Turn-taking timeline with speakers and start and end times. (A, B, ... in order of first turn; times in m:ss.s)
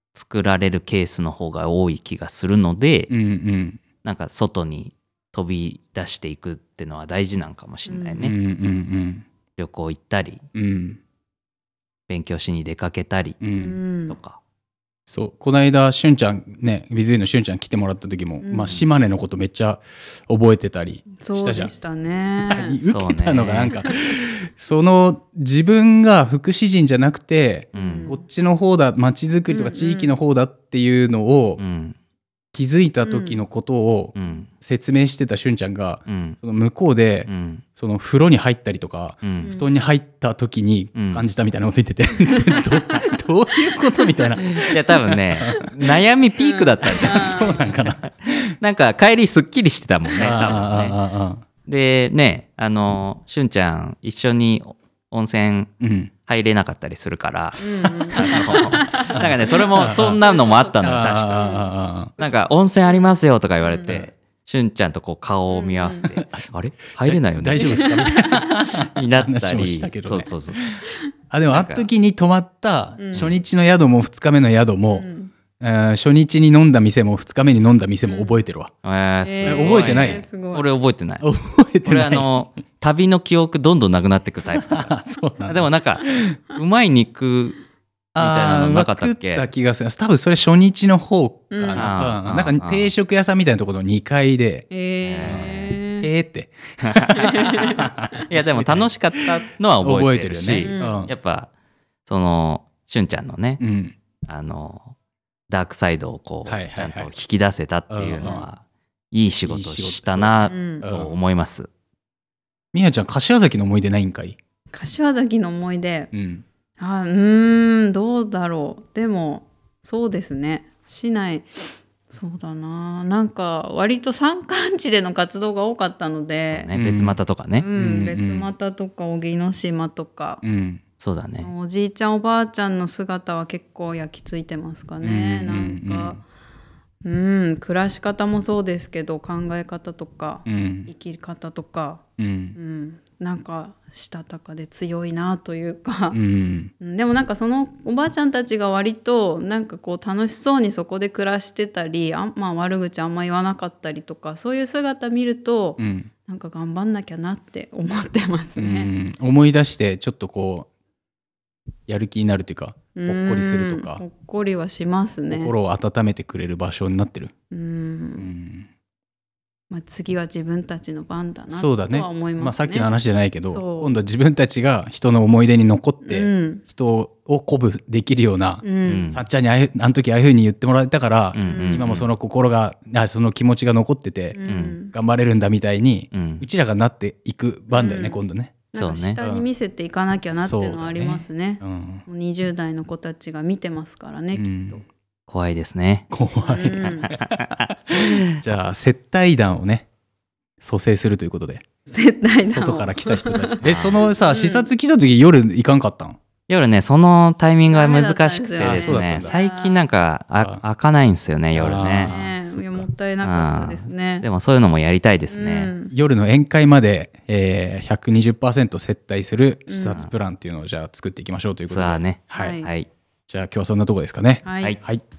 0:00.1-0:03.1 A
0:03.1-0:03.8 B
0:04.0-0:08.3 A
0:07.9-0:08.2 C
0:08.2-0:09.2 B
0:09.6-0:10.4 A
0:10.6-0:11.0 B
0:12.1-0:13.4 A
0:13.4-0:13.8 B
0:13.6-0:14.2 C
0:14.1-0:14.4 A
0:15.1-0:21.7 B
0:18.4-0:18.8 C
0:21.2-0:22.8 C
0:22.4-0:31.6 B
0:22.8-0:23.8 A
0:27.7-0:28.1 A
0:27.8-0:28.2 C
0:29.5-0:30.2 C
0:31.6-0:32.0 A
0:32.5-0:45.7 B
0:33.0-0:33.4 C
0:34.2-0:34.5 A
0:36.1-0:36.4 A
0:37.3-0:37.6 A
0:39.2-0:39.5 A
0:39.4-0:39.7 C
0:41.0-0:41.2 A
0:44.4-0:44.7 C
0:44.6-0:51.0 A
0:46.4-0:47.7 C
0:46.8-0:48.4 B
0:50.2-0:51.4 B
0:51.7-0:55.7 A
0:55.8-0:56.1 B
0:56.3-1:01.5 A
0:57.6-1:04.0 C
0:58.1-1:00.2 B
1:00.8-1:02.1 B
1:02.2-1:07.8 A
1:05.5-1:06.1 C
1:07.0-1:15.1 B
1:07.6-1:08.5 C
1:08.8-1:10.8 A
1:11.5-1:11.9 A
1:13.0-1:13.3 C
1:14.9-1:15.3 C
1:15.6-1:18.7 B
1:18.0-1:18.3 C
1:18.8-1:21.3 A
1:19.2-1:20.7 C
1:19.4-1:20.2 B
1:21.2-1:22.3 B
1:21.9-1:24.9 A
1:24.7-1:25.7 B
1:25.5-1:27.6 A
1:28.2-1:34.7 B
1:28.2-1:29.5 A
1:31.5-1:32.0 C
1:31.8-1:32.9 A
1:34.7-1:36.1 C
1:35.0-1:35.7 A
1:35.2-1:38.9 B
1:36.8-1:41.5 A
1:37.2-1:38.2 C
1:39.8-1:41.1 B
1:40.6-1:41.0 C
1:42.1-1:43.6 A
1:43.6-1:44.0 B
1:44.2-1:44.9 A
1:45.5-1:48.6 A
1:46.5-1:47.1 B
1:47.9-1:48.4 B
1:48.2-1:48.5 C
1:49.1-1:51.7 A
1:49.4-1:51.2 B
1:50.5-1:50.8 C
1:52.7-1:54.4 B
1:54.7-1:56.1 C
1:56.1-1:56.4 B
1:56.8-2:01.5 C
2:02.1-2:06.7 C
2:06.5-2:07.7 A
2:06.8-2:07.2 B
2:07.6-2:10.4 C
2:07.7-2:08.5 B
2:10.4-2:10.8 B
2:11.0-2:11.5 A
2:11.4-2:16.2 C
2:15.0-2:16.2 B
2:17.0-2:22.0 C
2:20.5-2:20.9 B
2:22.2-2:22.6 B
2:22.6-2:26.2 C
2:26.1-2:26.7 B
2:26.8-2:38.9 C
2:35.8-2:36.1 B
2:38.6-2:40.7 B
2:41.9-2:44.0 B
2:43.0-2:45.5 C
2:45.3-2:47.3 B
2:47.5-2:48.3 C
2:48.2-2:48.7 B
2:49.7-2:52.9 C
2:51.5-3:08.6 B
2:53.5-2:53.9 C
2:56.0-2:56.6 C
2:58.6-2:59.1 C
2:58.8-2:59.2 A
3:01.3-3:02.1 A
3:01.4-3:01.9 C
3:04.3-3:04.9 C
3:04.5-3:04.8 A
3:06.1-3:06.4 A
3:07.7-3:08.2 C
3:08.7-3:14.8 C
3:08.8-3:09.2 A
3:09.2-3:09.5 B
3:10.4-3:12.0 B
3:14.4-3:14.8 B
3:15.3-3:16.1 A
3:16.1-3:19.9 B
3:16.4-3:17.1 C
3:16.8-3:18.3 A
3:20.6-3:21.6 B
3:21.9-3:23.7 C
3:22.5-3:26.2 B
3:23.6-3:24.0 A
3:24.2-3:24.7 C
3:26.5-3:32.2 A
3:27.7-3:29.9 C
3:28.6-3:29.4 B
3:31.5-3:32.9 B
3:32.0-3:34.3 C
3:33.2-3:35.7 A
3:35.3-3:35.9 C
3:35.9-3:42.6 B
3:39.7-3:40.0 C
3:41.7-3:42.9 A
3:42.3-3:42.7 C
3:43.3-3:45.0 B
3:44.4-3:44.8 C